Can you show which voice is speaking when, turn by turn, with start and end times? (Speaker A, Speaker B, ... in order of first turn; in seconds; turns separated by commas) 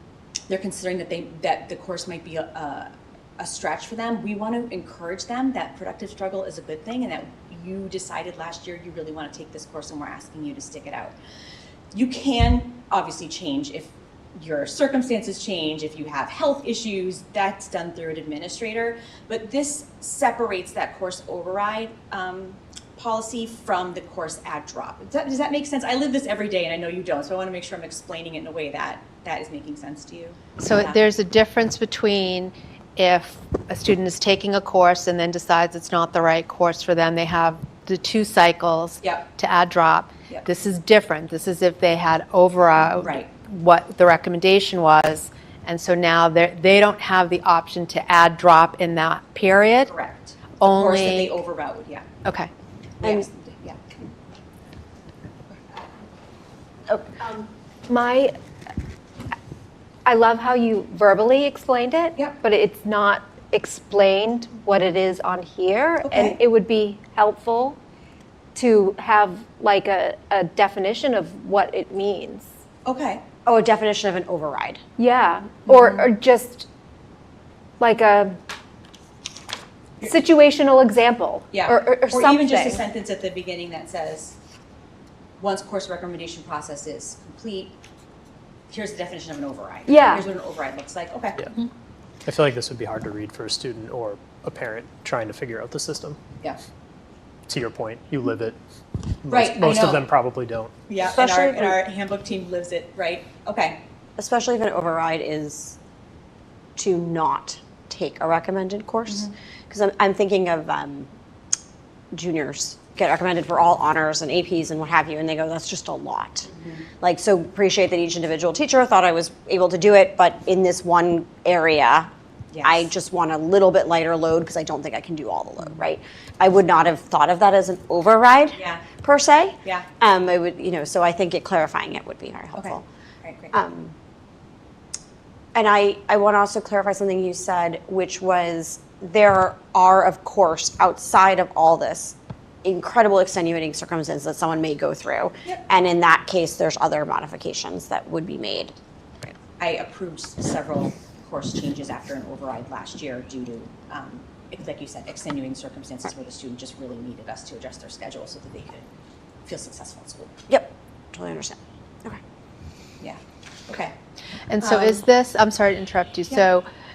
Speaker A: 0.5-11.1, Speaker A: 11.9-31.0, Speaker B: 30.6-49.9, Speaker A: 39.0-39.3, Speaker A: 43.0-43.3, Speaker A: 49.9-52.1, Speaker B: 50.6-51.3, Speaker B: 52.2-52.5, Speaker A: 53.0-53.8, Speaker A: 56.9-57.3, Speaker C: 57.9-58.4, Speaker C: 60.0-67.8, Speaker A: 66.0-66.4, Speaker C: 68.5-72.5, Speaker A: 72.8-73.2, Speaker D: 73.5-74.8, Speaker C: 75.0-76.7, Speaker A: 75.7-76.1, Speaker C: 77.8-78.4, Speaker C: 80.0-82.8, Speaker A: 81.5-84.4, Speaker A: 85.4-87.8, Speaker A: 88.7-91.5, Speaker C: 89.9-90.2, Speaker E: 92.2-96.2, Speaker E: 97.5-98.6, Speaker E: 99.2-100.8, Speaker A: 99.3-100.0, Speaker A: 100.9-103.8, Speaker D: 101.0-101.8, Speaker D: 104.2-105.8, Speaker D: 106.8-111.1, Speaker A: 109.1-109.3, Speaker D: 112.1-116.5, Speaker A: 116.5-116.9, Speaker D: 117.0-122.1, Speaker A: 122.5-122.9, Speaker D: 122.6-132.8, Speaker A: 128.5-128.9, Speaker A: 129.6-129.9, Speaker A: 132.6-133.5, Speaker D: 133.5-133.9, Speaker D: 135.5-148.8, Speaker A: 149.6-158.9, Speaker A: 159.4-160.3, Speaker D: 160.5-162.2, Speaker A: 163.0-163.9, Speaker B: 164.5-166.7, Speaker A: 164.6-165.0